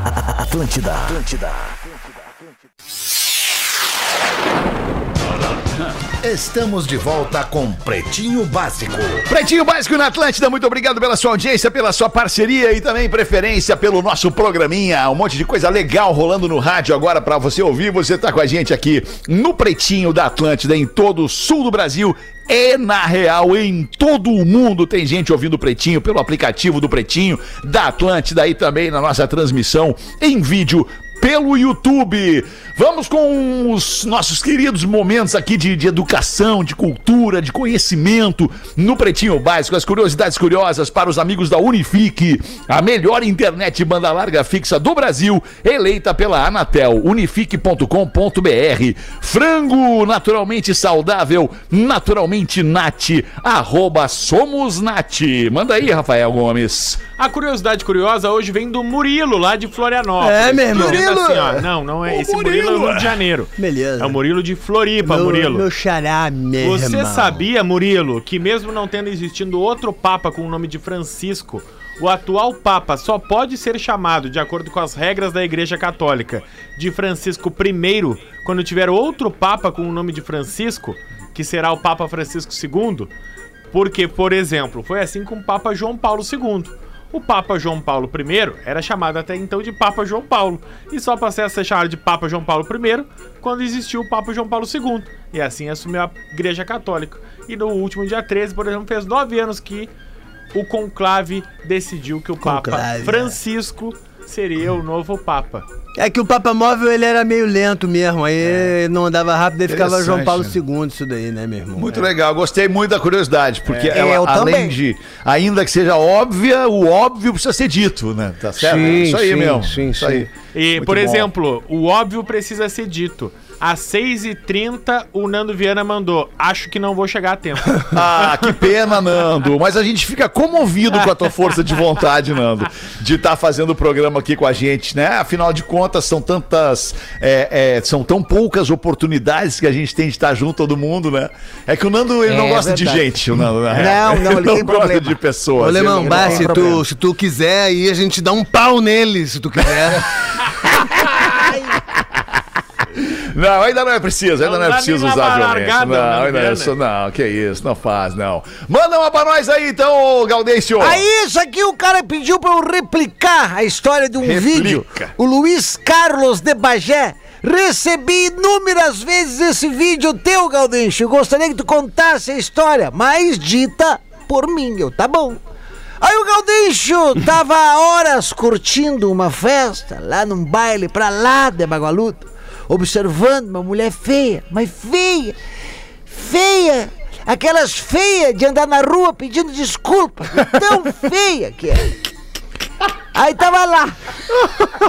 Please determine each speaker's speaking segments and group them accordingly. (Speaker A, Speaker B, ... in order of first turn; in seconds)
Speaker A: 0.5-1.5, 6.3-9.2
Speaker B: 0.5-1.4, 6.2-8.5, 9.1-57.0, 62.1-63.2, 109.7-110.6, 111.8-121.3, 127.9-146.8, 149.8-152.2, 152.9-161.0, 164.2-165.1
Speaker C: 57.2-65.7, 66.6-83.1, 83.7-99.9, 100.5-105.7, 120.5-128.6, 154.4-156.7
Speaker D: 60.2-61.6, 63.6-64.2, 65.0-67.4, 102.4-103.3, 106.0-112.0, 118.6-120.3, 145.6-150.1
Speaker E: 113.8-114.8, 142.2-145.2, 145.7-146.8, 151.4-151.7, 160.8-175.4, 176.0-185.4, 186.1-192.0, 193.1-193.9